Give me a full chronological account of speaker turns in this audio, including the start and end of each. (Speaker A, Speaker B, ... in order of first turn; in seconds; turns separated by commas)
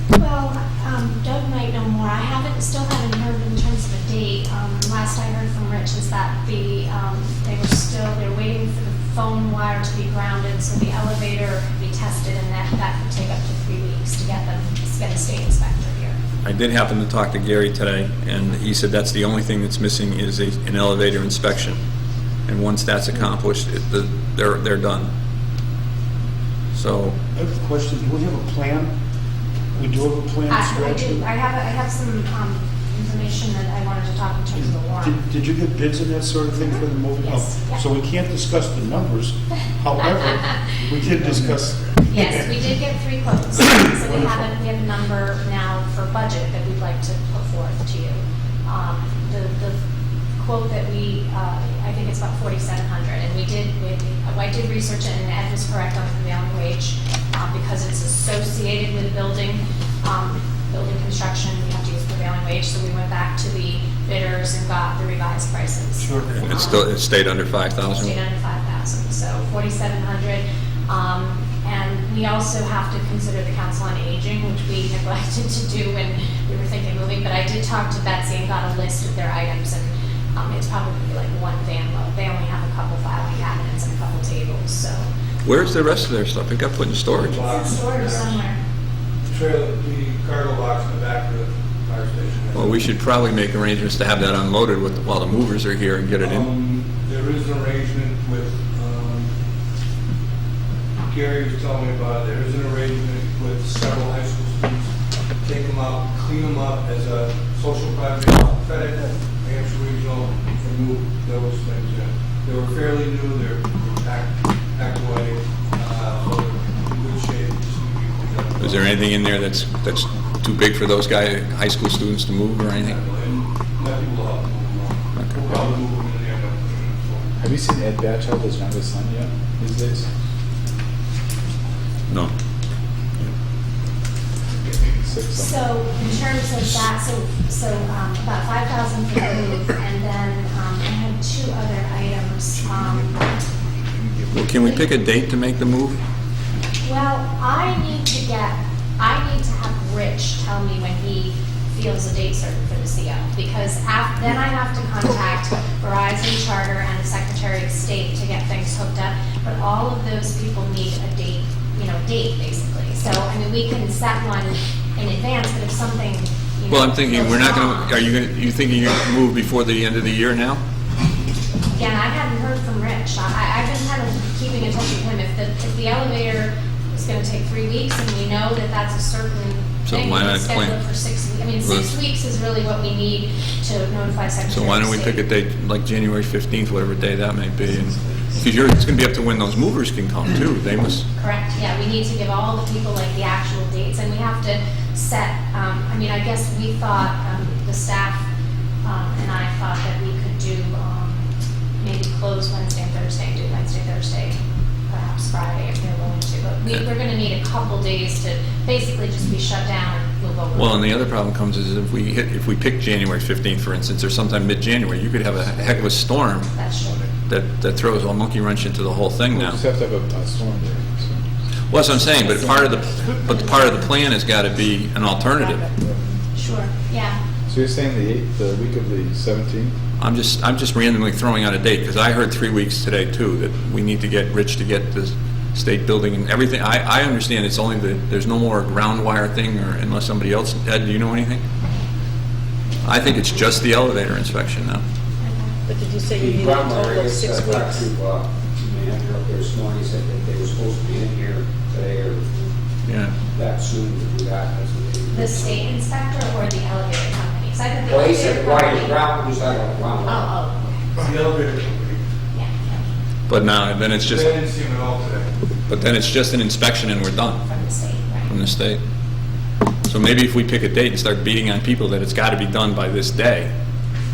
Speaker A: 0.1-16.2, Speaker B: 16.4-21.8, Speaker B: 22.5-25.1, Speaker B: 26.7-27.2, Speaker C: 27.3-28.9, Speaker C: 29.7-31.3, Speaker A: 30.5-35.2, Speaker C: 34.5-42.5, Speaker A: 37.2-37.9, Speaker A: 40.0-40.6, Speaker A: 42.0-49.8, Speaker C: 43.9-44.5, Speaker A: 50.4-66.9, Speaker D: 66.0-66.4, Speaker B: 66.3-68.2, Speaker A: 67.8-85.1, Speaker B: 85.4-87.4, Speaker D: 87.1-88.5, Speaker A: 87.5-88.6, Speaker D: 89.3-92.9, Speaker B: 92.5-96.5, Speaker D: 96.2-99.3, Speaker D: 101.1-104.9, Speaker D: 105.4-119.0, Speaker B: 118.6-123.0, Speaker D: 122.8-127.3, Speaker E: 127.4-130.1, Speaker E: 134.9-135.8, Speaker A: 135.3-143.2, Speaker B: 144.3-146.0, Speaker A: 146.8-168.1, Speaker B: 166.7-170.6, Speaker A: 171.7-185.2, Speaker B: 179.9-180.8, Speaker B: 181.6-181.9, Speaker B: 184.5-191.1, Speaker A: 191.2-198.2, Speaker A: 198.8-201.2, Speaker A: 201.8-204.4, Speaker A: 204.9-211.0, Speaker B: 210.5-216.5, Speaker A: 216.5-217.0, Speaker B: 217.3-219.6, Speaker E: 219.3-221.2, Speaker B: 221.7-225.6, Speaker A: 222.2-222.8, Speaker F: 225.4-226.2, Speaker A: 226.4-227.2, Speaker E: 227.5-229.8, Speaker B: 230.0-241.4, Speaker B: 242.8-244.8, Speaker A: 245.2-245.5, Speaker F: 245.7-247.9, Speaker G: 246.1-252.5, Speaker B: 252.9-253.2, Speaker G: 253.3-255.7, Speaker A: 255.1-259.0, Speaker G: 257.9-260.3, Speaker A: 260.1-260.7, Speaker D: 261.0-262.0, Speaker A: 262.3-262.8, Speaker B: 263.3-264.3, Speaker D: 264.0-265.3, Speaker B: 265.7-267.4, Speaker A: 267.4-268.3, Speaker B: 268.3-268.8, Speaker B: 269.9-273.5